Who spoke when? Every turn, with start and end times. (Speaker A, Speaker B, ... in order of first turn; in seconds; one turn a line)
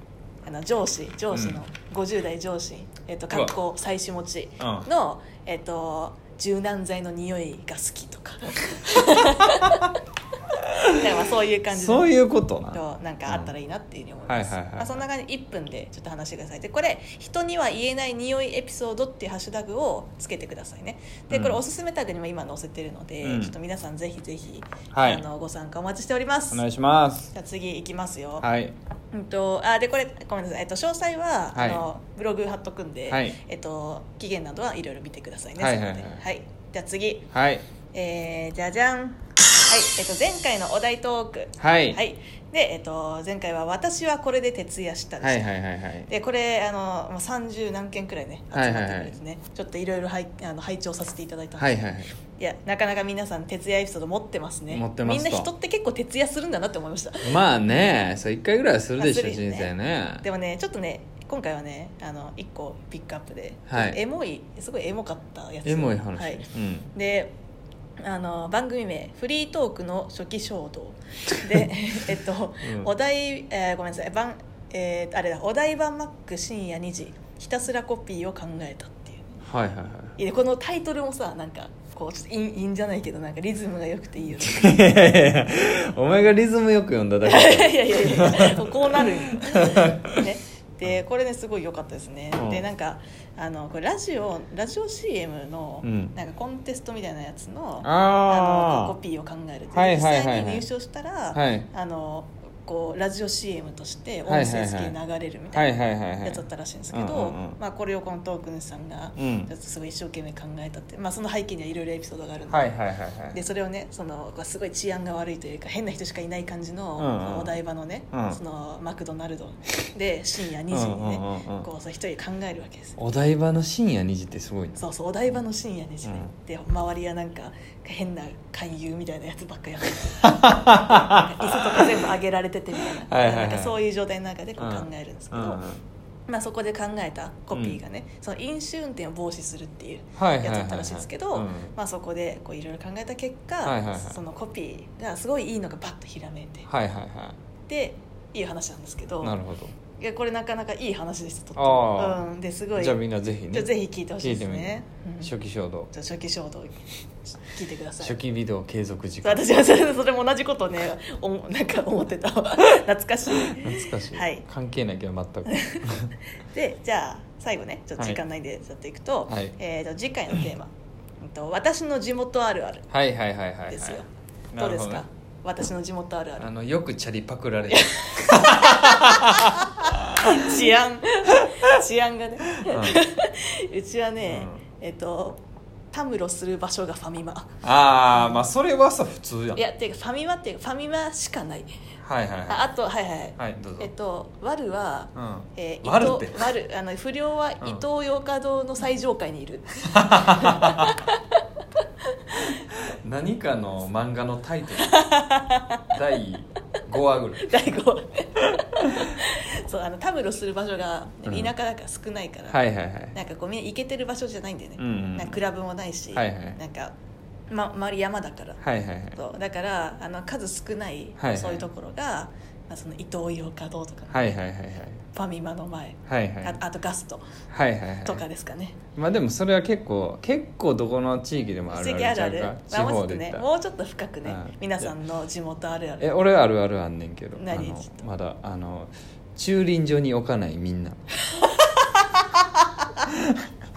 Speaker A: 0.4-9.9
Speaker B: 1.3-1.6
Speaker B: 4.6-4.9
Speaker B: 9.5-9.8
Speaker A: 10.9-12.2
Speaker B: 11.7-13.5
Speaker A: 12.7-26.6
Speaker B: 14.3-15.0
Speaker B: 21.3-21.6
Speaker B: 23.2-23.6
Speaker B: 24.9-25.2
Speaker B: 26.5-27.3
Speaker A: 27.3-28.5
Speaker B: 28.4-28.7
Speaker A: 29.1-37.3
Speaker B: 31.6-31.8
Speaker B: 33.1-33.4
Speaker B: 35.6-36.2
Speaker B: 37.3-37.6
Speaker A: 37.9-45.5
Speaker B: 41.6-42.0
Speaker B: 45.2-46.1
Speaker A: 46.1-51.8
Speaker B: 48.5-49.1
Speaker B: 51.6-52.1
Speaker A: 52.4-57.8
Speaker B: 54.7-55.5
Speaker B: 57.2-60.2
Speaker A: 59.0-67.3
Speaker B: 63.7-64.0
Speaker B: 65.6-66.9
Speaker A: 68.0-79.4
Speaker B: 72.6-72.9
Speaker B: 79.5-80.1
Speaker A: 80.2-84.8
Speaker B: 84.4-90.2
Speaker A: 87.2-112.7
Speaker B: 92.4-92.6
Speaker B: 95.8-96.1
Speaker B: 97.8-99.0
Speaker B: 99.7-100.7
Speaker B: 101.3-101.7
Speaker B: 104.3-105.0
Speaker B: 105.5-107.6
Speaker B: 109.2-109.5
Speaker B: 112.5-113.4
Speaker A: 113.3-123.0
Speaker B: 117.0-117.6
Speaker B: 118.1-118.4
Speaker B: 120.7-121.7
Speaker B: 123.0-124.8
Speaker A: 124.8-135.6
Speaker B: 126.0-126.3
Speaker B: 130.2-131.9
Speaker B: 133.1-133.8
Speaker B: 134.6-135.8
Speaker A: 136.3-146.7
Speaker B: 137.5-137.8
Speaker B: 140.2-141.7
Speaker B: 143.6-144.2
Speaker B: 146.7-147.4
Speaker A: 147.7-149.4
Speaker B: 149.2-149.7
Speaker A: 150.0-155.3
Speaker B: 151.6-152.2
Speaker B: 152.8-155.9
Speaker A: 155.9-158.2
Speaker B: 158.0-159.5
Speaker A: 159.2-164.5
Speaker B: 163.4-166.1
Speaker A: 165.5-165.9
Speaker A: 166.5-172.9
Speaker B: 169.3-169.5
Speaker B: 172.9-174.0
Speaker A: 173.7-176.5
Speaker B: 174.5-175.0
Speaker B: 176.4-180.6
Speaker A: 177.7-185.4
Speaker B: 182.6-183.0
Speaker B: 184.2-184.6
Speaker A: 185.9-187.6
Speaker B: 187.6-189.6
Speaker A: 188.1-188.4
Speaker A: 189.6-191.7
Speaker B: 192.0-192.7
Speaker A: 192.5-201.2
Speaker B: 193.4-193.9
Speaker B: 195.2-196.5
Speaker B: 199.9-201.0
Speaker B: 202.7-205.0
Speaker A: 204.8-205.9
Speaker B: 205.9-207.7
Speaker A: 207.4-216.9
Speaker B: 211.2-211.5
Speaker B: 212.5-213.2
Speaker B: 214.8-215.4
Speaker B: 216.1-216.6
Speaker A: 217.5-224.4
Speaker B: 218.6-219.2
Speaker B: 221.2-221.6
Speaker B: 224.1-225.0
Speaker A: 225.1-227.3
Speaker B: 226.1-226.6
Speaker B: 227.5-228.2
Speaker A: 228.0-228.8
Speaker B: 228.9-233.4
Speaker A: 231.7-236.2
Speaker B: 234.2-234.9
Speaker B: 236.0-241.0
Speaker A: 237.4-238.0
Speaker A: 241.3-242.6
Speaker B: 243.1-243.4